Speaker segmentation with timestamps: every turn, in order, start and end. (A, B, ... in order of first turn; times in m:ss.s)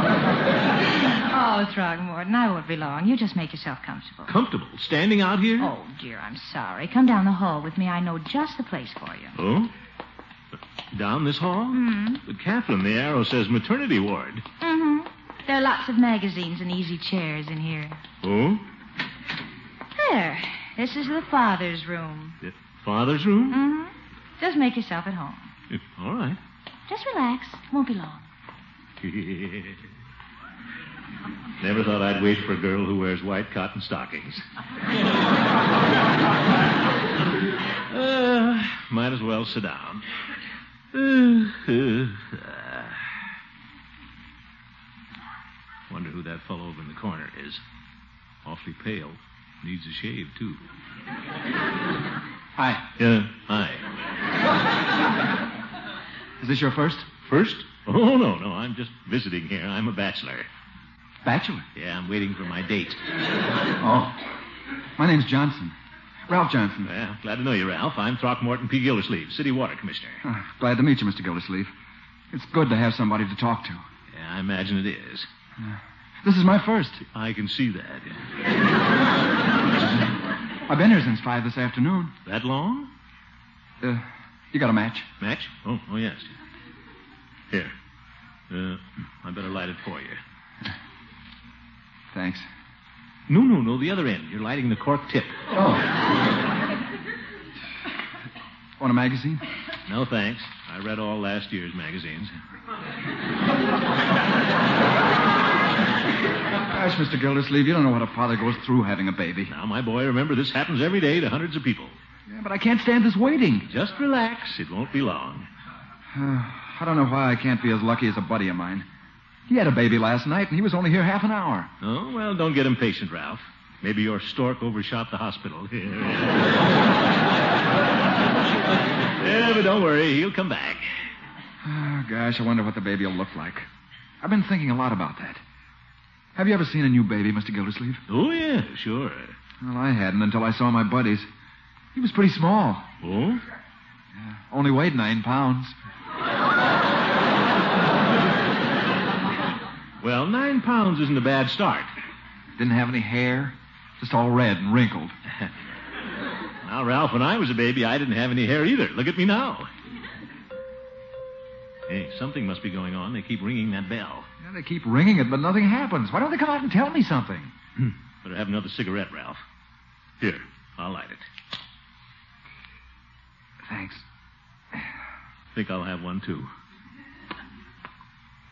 0:01.2-0:04.3 A
0:04.3-0:05.7 B
0:05.6-0:09.4 A
0:09.4-0:09.7 B
0:10.9-0:14.4 B
0:11.7-0:12.2 A
0:14.6-0:18.0 A
0:18.2-0:18.6 B
0:20.0-0:22.4 A
0:22.4-0:23.6 B
0:23.5-0:25.5 A
0:25.7-0:26.4 B
0:26.9-0:28.3 A
0:29.0-0:29.8 B
0:31.6-0:34.4 B
0:37.9-0:40.0 B
0:40.9-0:43.0 B
0:45.9-0:47.6 B
0:48.4-0:50.6 B
0:53.0-0:53.8 B
0:56.4-0:57.1 C
0:57.3-1:00.5 B
1:01.2-1:01.6 C
1:01.8-1:03.0 B
1:03.8-1:04.2 C
1:05.0-1:05.8 C
1:06.3-1:06.9 C
1:06.8-1:10.2 B
1:10.2-1:11.7 C
1:12.3-1:13.8 C
1:14.1-1:15.3 B
1:15.6-1:17.0 C
1:17.1-1:18.3 B
1:20.7-1:22.1 C
1:22.2-1:22.9 B
1:23.8-1:25.1 C
1:25.2-1:26.4 B
1:28.5-1:30.2 B
1:32.1-1:32.5 C
1:33.3-1:35.4 B
1:35.5-1:35.9 C
1:38.8-1:39.4 C
1:39.9-1:42.3 B
1:46.6-1:49.5 C
1:49.5-1:52.0 B
1:52.3-1:53.7 C
1:53.7-1:55.5 B
1:56.1-1:58.9 C
1:59.5-2:01.7 C
2:01.8-2:06.7 B
2:09.2-2:10.9 B
2:11.6-2:13.7 C
2:14.2-2:15.4 C
2:16.4-2:18.0 C
2:18.1-2:19.4 B
2:19.6-2:21.3 C
2:21.9-2:22.9 C
2:23.0-2:23.4 B
2:24.2-2:25.8 C
2:30.0-2:31.9 B
2:32.6-2:35.1 C
2:36.6-2:39.7 B
2:41.9-2:44.3 B
2:44.4-2:47.5 C
2:47.8-2:49.4 B
2:50.2-2:51.3 B
2:53.6-2:54.0 C
2:55.5-2:56.5 B